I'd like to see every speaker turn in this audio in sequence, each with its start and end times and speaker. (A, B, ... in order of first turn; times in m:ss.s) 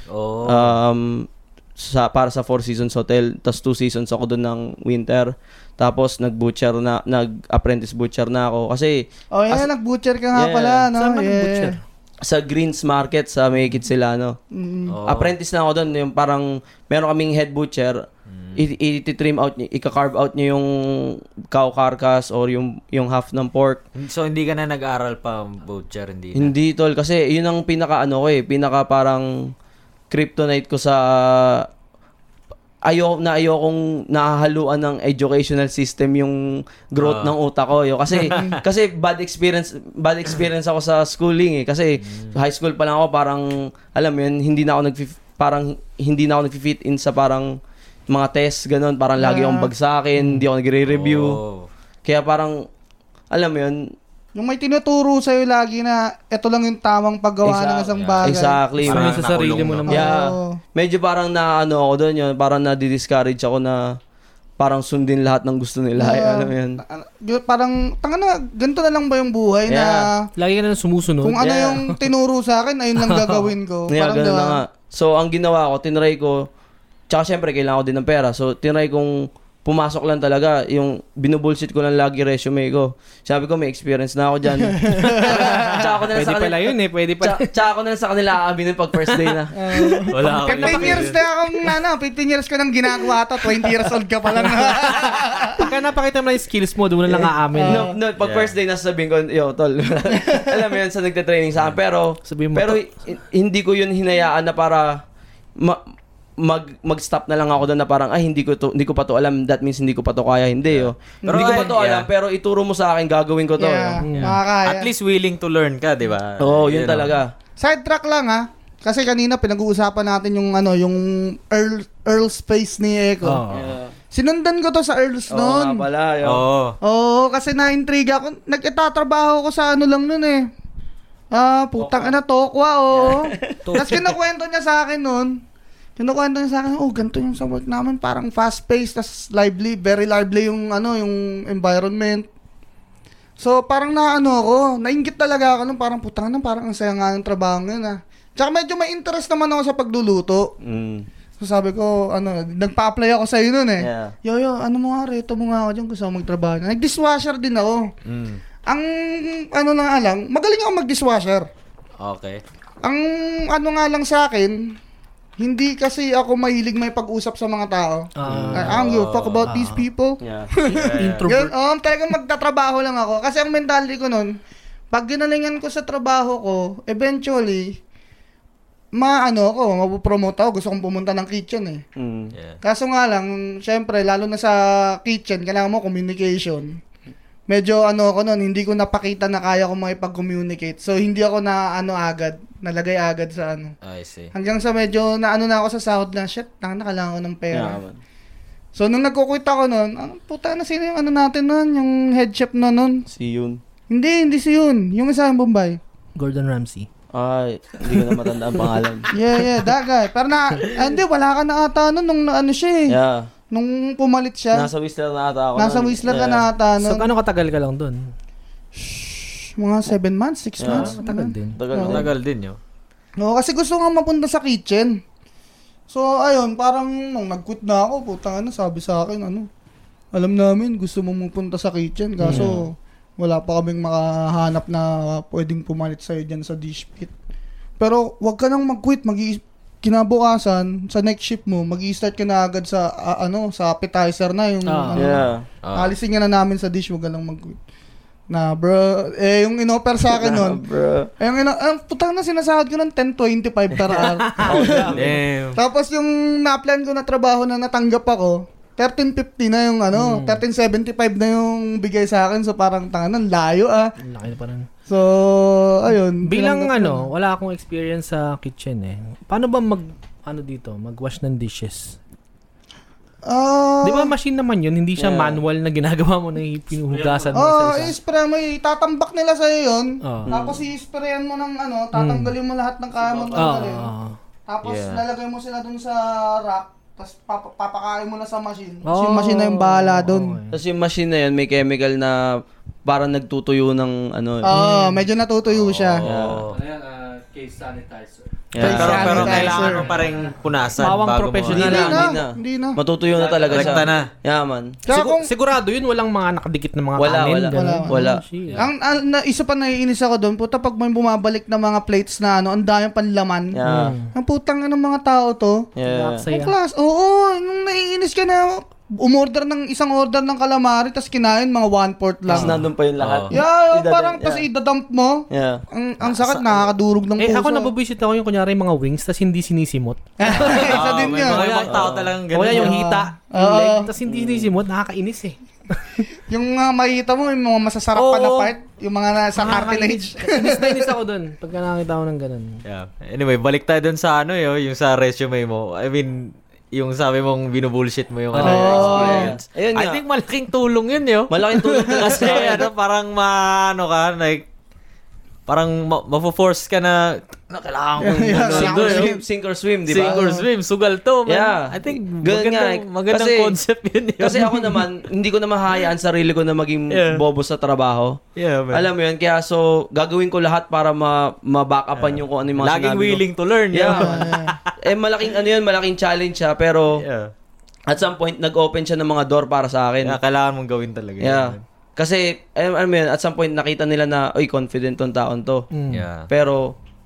0:00.1-0:00.7 A
0:00.4-0:09.7 B
0:09.3-0:11.7 C
0:10.3-0:10.8 B
0:11.0-0:11.8 D
0:12.2-0:14.4 B
0:14.5-0:14.9 C
0:14.9-0:15.3 A
0:15.0-0:23.8 B
0:18.3-0:18.6 A
0:23.9-0:26.5 A
0:26.3-0:29.5 B
0:30.1-0:31.7 B
0:32.8-0:47.6 B
0:37.0-0:37.3 A
0:38.3-0:38.6 C
0:42.0-0:42.3 A
0:48.1-0:51.4 B
0:49.2-0:49.7 C
0:50.8-0:51.7 A
0:52.0-0:52.6 B
0:53.3-0:53.9 B
0:54.4-0:58.6 C
0:57.4-0:59.2 B
0:57.9-1:00.0 A
0:58.8-1:00.1 D
0:59.9-1:04.0 B
0:59.9-1:00.6 C
1:04.6-1:06.8 B
1:06.0-1:10.3 C
1:09.7-1:10.1 B
1:10.4-1:12.0 D
1:11.2-1:14.6 C
1:11.4-1:11.8 B
1:13.0-1:13.5 D
1:13.9-1:16.5 B
1:17.1-1:29.7 B
1:24.8-1:25.8 C
1:25.1-1:27.5 D
1:29.5-1:35.7 C
1:29.7-1:30.0 D
1:30.1-1:31.2 A
1:30.6-1:31.0 B
1:30.6-1:31.1 D
1:34.4-1:37.9 D
1:37.1-1:45.0 B
1:37.5-1:37.9 C
1:38.2-1:38.5 A
1:42.2-1:42.8 D
1:46.4-1:54.0 B
1:50.7-1:52.1 A
1:51.2-1:51.7 C
1:53.6-1:54.9 C
1:54.0-1:54.4 D
1:54.1-1:57.2 A
1:56.4-1:57.3 B
1:57.6-2:03.4 C
2:03.2-2:03.7 D
2:03.5-2:03.9 B
2:04.1-2:05.8 C
2:05.3-2:06.4 B
2:06.2-2:06.8 A
2:06.8-2:10.5 C
2:11.3-2:15.4 C
2:11.8-2:12.1 B
2:12.9-2:13.8 B
2:13.7-2:14.0 D
2:16.0-2:22.3 C
2:23.4-2:30.5 C
2:30.6-2:31.1 B
2:31.4-2:37.9 C
2:33.8-2:34.1 B
2:38.0-2:38.4 A
2:38.6-2:41.5 C
2:42.0-2:42.4 A
2:42.8-2:44.8 C
2:45.4-2:54.4 C
2:48.2-2:48.8 D
2:48.3-2:49.5 A
2:48.3-2:48.7 B
2:49.4-2:49.8 D
2:50.2-2:50.5 B
2:50.6-2:51.3 A
2:51.0-2:51.5 D
2:54.9-2:57.8 C
2:58.9-3:01.8 C
3:02.0-3:02.3 B
3:02.6-3:06.8 C
3:07.5-3:13.7 C
3:13.8-3:14.3 A
3:14.3-3:17.8 C
3:17.5-3:18.0 B
3:18.8-3:23.0 C
3:23.1-3:23.6 B
3:23.9-3:25.8 C
3:26.2-3:26.9 D
3:27.1-3:29.1 B
3:29.1-3:33.0 C
3:32.9-3:33.3 B
3:33.5-3:34.7 C
3:34.5-3:36.4 B
3:35.6-3:37.1 C
3:36.8-3:38.1 D
3:38.8-3:42.0 C
3:40.6-3:40.9 B
3:40.7-3:41.6 D
3:41.5-3:42.1 B
3:41.8-3:42.6 A
3:43.2-3:45.0 C
3:45.9-3:49.5 C
3:50.1-3:57.1 C
3:52.2-3:52.5 D
3:52.3-3:52.6 B
3:57.8-4:05.2 C
4:04.6-4:05.2 D
4:04.9-4:05.4 B
4:05.6-4:05.9 A
4:05.7-4:07.6 C
4:08.3-4:10.6 C
4:10.1-4:11.1 B
4:11.2-4:15.0 C
4:13.9-4:15.1 D
4:14.4-4:15.2 B
4:14.9-4:15.6 A
4:15.5-4:23.9 C
4:19.9-4:20.4 D
4:24.0-4:24.7 D
4:24.9-4:27.1 C
4:26.2-4:32.0 D
4:33.2-4:34.1 C
4:33.8-4:37.9 D
4:35.0-4:35.4 B
4:36.9-4:37.4 E
4:37.3-4:43.9 C
4:40.0-4:40.3 D
4:40.3-4:40.6 B
4:41.9-4:42.3 D
4:43.1-4:43.6 B
4:43.4-4:44.2 D
4:44.5-4:50.4 C
4:44.6-4:45.0 A
4:48.8-4:50.6 D
4:50.5-4:54.5 B
4:54.4-4:56.0 C
4:54.5-4:55.0 D
4:55.5-4:56.6 A
4:56.0-4:56.4 B
4:56.4-5:00.9 E
4:58.5-4:59.5 B
4:58.6-4:59.9 C
4:58.6-5:02.0 A
4:58.6-4:59.6 D
5:00.8-5:02.0 D
5:01.5-5:04.8 B
5:01.5-5:02.8 C
5:03.1-5:03.9 E
5:03.5-5:04.1 A
5:04.8-5:05.3 C
5:04.9-5:08.6 D
5:07.0-5:08.2 B
5:07.5-5:13.6 C
5:13.5-5:13.9 B
5:13.6-5:14.1 D
5:14.1-5:15.7 C
5:15.8-5:16.2 B
5:15.8-5:16.5 D
5:16.2-5:22.5 C
5:22.3-5:24.4 B
5:22.3-5:22.6 D
5:23.0-5:23.3 A
5:23.3-5:27.7 C
5:25.3-5:25.6 B
5:26.0-5:26.6 A
5:27.2-5:30.7 D
5:30.2-5:31.4 C
5:30.3-5:33.0 B
5:30.4-5:32.7 A
5:32.4-5:36.0 D
5:32.5-5:33.9 C
5:34.0-5:34.5 B
5:36.3-5:40.9 C
5:37.9-5:38.5 D
5:39.4-5:42.6 D
5:42.6-5:54.4 A
5:48.3-5:49.1 D
5:48.4-5:49.3 C
5:48.5-5:50.0 B
5:51.3-5:52.7 B
5:55.5-5:59.1 A
5:57.9-6:00.2 B
5:58.0-5:59.2 C
5:59.9-6:04.8 A
6:00.0-6:00.4 C
6:01.2-6:03.6 B
6:04.2-6:08.2 B
6:06.9-6:07.2 A
6:08.4-6:08.9 A
6:08.7-6:14.3 B
6:12.0-6:14.8 A
6:13.9-6:14.5 C
6:14.8-6:17.0 B
6:17.0-6:17.3 A
6:17.9-6:20.2 B
6:20.0-6:21.6 A
6:21.2-6:25.6 B
6:25.7-6:26.0 D
6:25.9-6:26.3 A
6:26.3-6:26.7 B